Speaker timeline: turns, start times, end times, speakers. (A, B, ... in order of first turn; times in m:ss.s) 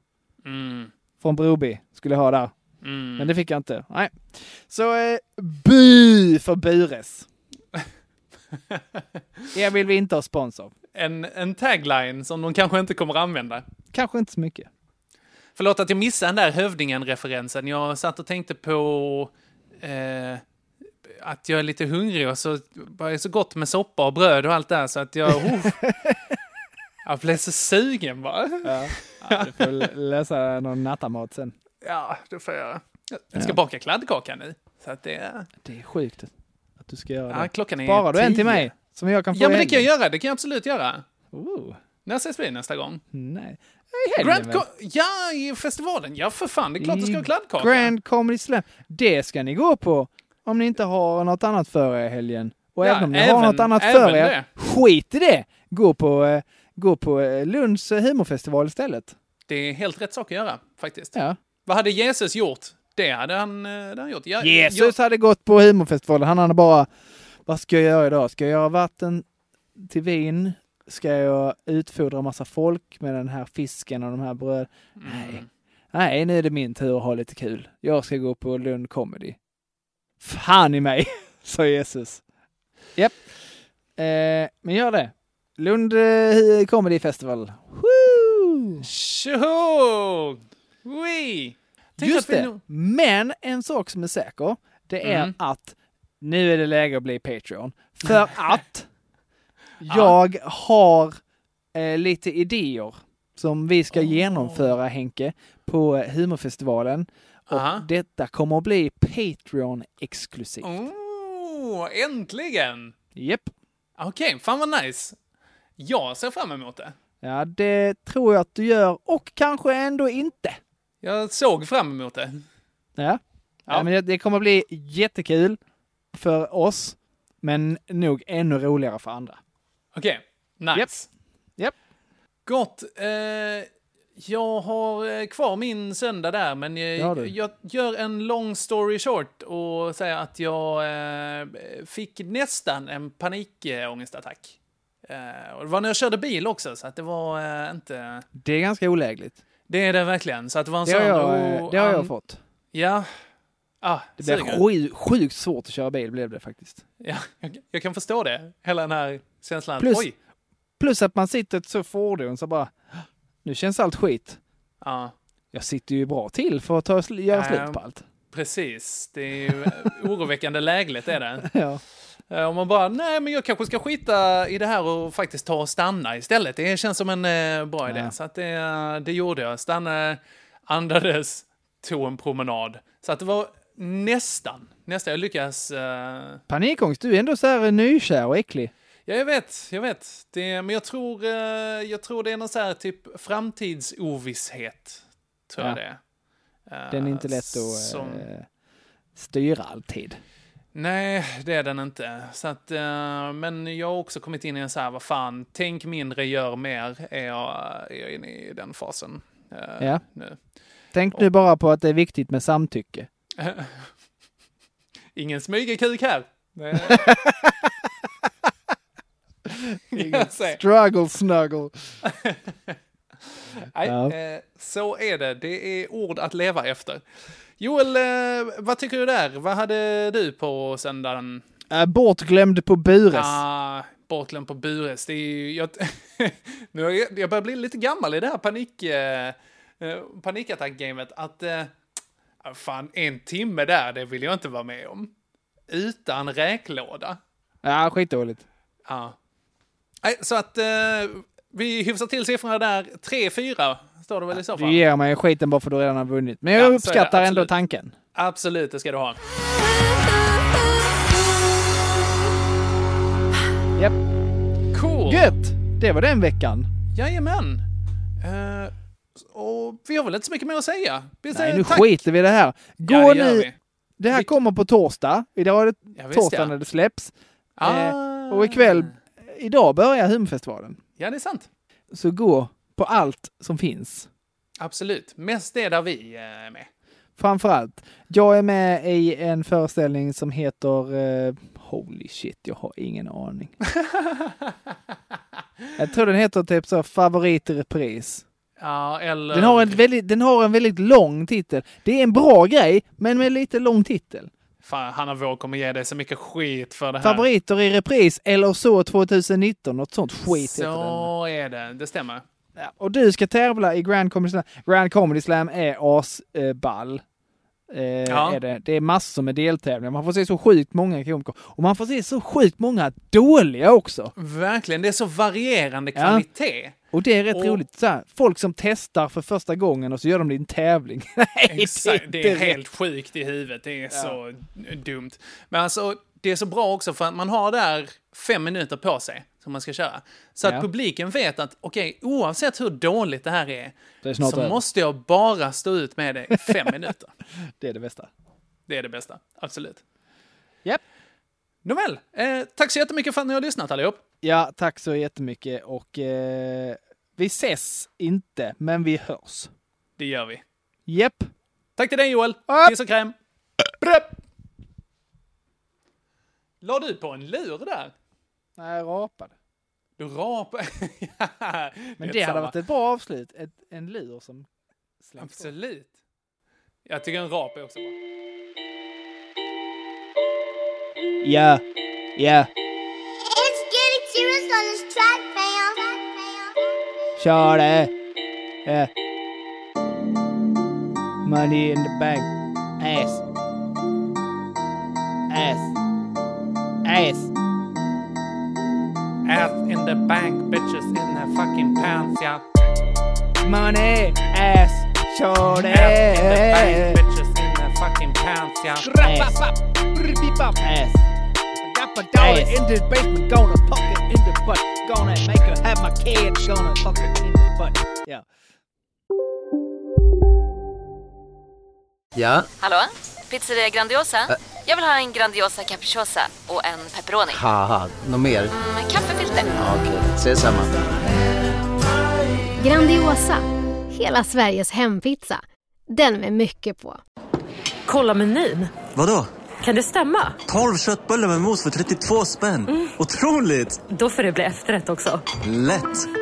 0:00.4-0:00.9 A
0:01.2-0:02.5 B
0:02.8-0:03.3 A
0:03.2-0:07.3 B
0:08.7-0:09.2 A
0:09.5-0:10.7 B
0:10.9-0:13.6 A
0:13.9-0:14.7 B
0:15.6-0:20.4 A
0:21.0-0:25.8 A
0:27.0-0:29.9 A
0:28.6-0:31.6 B
0:31.8-0:35.5 A
0:35.6-0:39.9 B
0:37.3-0:38.7 A
0:39.3-0:41.0 A
0:41.3-0:41.8 B
0:42.0-0:43.0 A
0:43.1-0:44.6 B
0:44.2-0:47.9 A
0:46.8-0:59.2 B
0:52.8-0:54.5 A
0:59.5-1:01.1 A
1:01.6-1:04.9 A
1:04.4-1:06.9 B
1:07.4-1:09.2 B
1:09.8-1:19.4 B
1:15.0-1:15.5 A
1:20.2-1:22.2 B
1:23.0-1:23.2 B
1:24.0-1:28.8 B
1:28.8-1:32.6 A
1:32.0-1:38.9 B
1:35.0-1:35.3 A
1:39.8-1:41.2 B
1:39.9-1:40.2 A
1:41.7-1:50.8 B
1:43.9-1:44.7 A
1:47.5-1:47.8 A
1:50.6-1:52.9 A
1:53.1-1:53.5 B
1:54.0-1:55.2 A
1:55.8-1:56.9 A
1:57.2-2:00.6 B
2:01.0-2:02.4 A
2:03.0-2:05.6 B
2:06.1-2:09.4 B
2:09.9-2:11.1 A
2:12.4-2:28.3 A
2:17.0-2:17.3 B
2:28.3-2:29.4 B
2:29.7-2:32.1 A
2:30.8-2:32.4 B
2:32.7-2:33.2 A
2:33.8-2:34.6 A
2:34.2-2:36.8 B
2:37.0-2:40.1 A
2:39.8-2:40.1 B
2:40.8-2:42.7 B
2:43.4-2:44.4 B
2:44.8-2:45.1 A
2:45.5-2:48.0 B
2:47.3-2:47.8 A
2:48.3-2:51.5 A
2:51.4-2:51.8 B
2:52.3-3:06.4 A
2:57.9-2:58.1 B
3:06.5-3:08.7 B
3:09.0-3:16.0 A
3:16.7-3:18.3 A
3:16.9-3:18.4 B
3:19.1-3:20.2 B
3:20.7-3:30.4 A
3:30.9-3:33.1 B
3:33.4-3:33.9 A
3:35.1-3:37.2 A
3:36.8-3:37.7 B
3:39.5-3:41.7 B
3:39.9-3:40.6 A
3:42.0-3:42.8 A
3:43.7-3:47.0 A
3:43.8-3:44.1 B
3:47.6-3:51.4 A
3:51.7-3:53.4 B
3:53.1-4:01.7 A
4:02.4-4:05.1 A
4:05.7-4:07.2 A
4:07.6-4:08.4 B
4:08.8-4:09.2 A
4:10.0-4:14.8 A
4:14.3-4:17.9 B
4:16.5-4:17.5 A
4:18.1-4:19.2 A
4:24.7-4:25.4 A
4:25.1-4:26.7 B
4:26.9-4:27.6 A
4:28.2-4:32.0 A
4:31.3-4:40.8 B
4:32.8-4:33.6 A
4:34.1-4:34.3 A
4:36.0-4:36.6 A
4:37.6-4:38.9 A
4:41.0-4:41.5 A
4:41.9-4:44.1 B
4:44.6-4:46.7 A
4:47.2-4:53.6 B
4:53.8-4:54.7 A
4:55.8-4:58.2 B
4:58.6-4:59.8 A
4:59.3-5:04.3 B
5:04.6-5:07.3 A
5:07.0-5:11.1 B
5:10.3-5:12.2 A
5:12.6-5:17.0 B
5:17.7-5:24.1 B
5:18.1-5:18.4 A
5:24.2-5:26.8 A
5:25.9-5:26.2 B
5:26.9-5:32.6 B
5:27.3-5:27.6 A
5:31.5-5:47.1 A
5:33.9-5:34.2 B
5:44.0-5:44.6 B
5:46.4-5:46.8 B
5:47.6-5:48.1 B
5:48.7-5:49.8 A
5:51.6-5:54.0 A
5:54.2-5:59.5 B
6:00.0-6:00.4 A
6:00.9-6:01.3 B
6:01.8-6:03.1 A
6:02.5-6:02.7 B
6:06.6-6:07.9 A
6:08.6-6:09.3 B
6:10.0-6:12.6 A
6:12.0-6:14.5 B
6:15.0-6:15.5 B
6:15.2-6:15.9 A
6:16.8-6:18.0 A
6:21.2-6:21.6 B
6:22.2-6:22.5 B
6:23.3-6:26.6 C
6:27.2-6:27.9 B
6:28.6-6:28.9 B
6:31.2-6:33.2 B
6:35.3-6:35.7 B
6:36.8-6:37.3 B
6:39.2-6:42.4 A
6:43.4-6:47.0 B
6:45.5-6:49.4 A
6:48.8-6:51.0 B
6:51.6-6:58.2 B
6:52.2-6:52.6 A
7:02.1-7:02.5 D
7:02.6-7:07.4 E
7:07.3-7:08.5 D
7:08.5-7:09.6 E
7:09.6-7:10.7 D
7:12.6-7:17.0 F
7:17.8-7:18.8 G
7:18.9-7:19.3 H
7:19.6-7:20.4 G
7:20.4-7:23.8 H
7:22.7-7:22.9 G
7:23.8-7:25.2 G
7:25.4-7:26.1 H